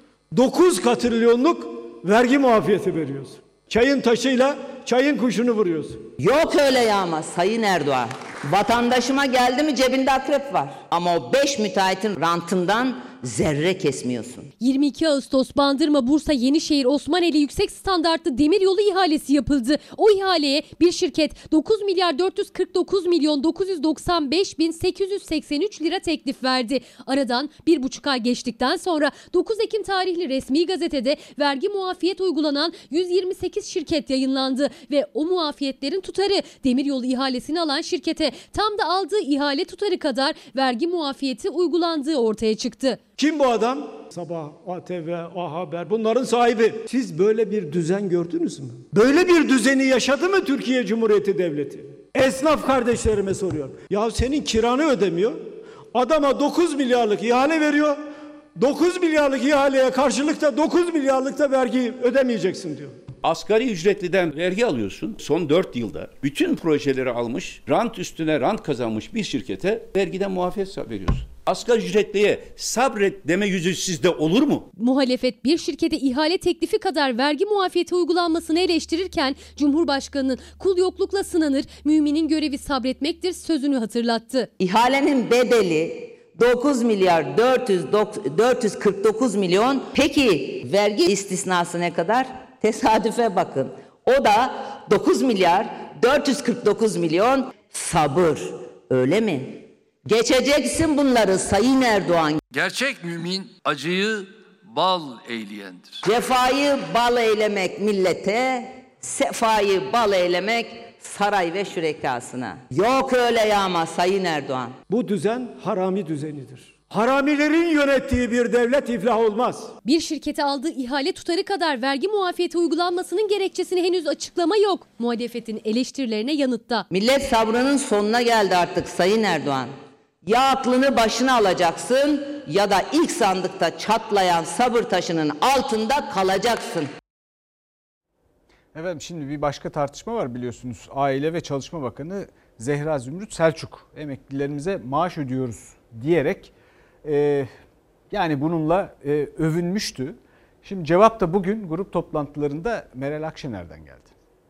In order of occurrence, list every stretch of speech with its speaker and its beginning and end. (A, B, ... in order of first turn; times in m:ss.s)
0:00.3-0:06.0 A
0:06.2-0:14.5 B
0:14.6-0:43.0 C
0:43.2-0:58.0 A
0:58.6-1:03.0 A
1:03.2-1:14.7 D
1:14.8-1:24.5 C
1:24.6-1:42.4 B
1:42.5-1:45.8 E
1:46.0-1:54.8 B
1:54.9-1:59.7 A
1:59.8-2:06.8 C
2:06.9-2:16.9 B
2:18.7-2:26.5 F
2:27.0-2:27.5 F
2:28.1-2:34.1 F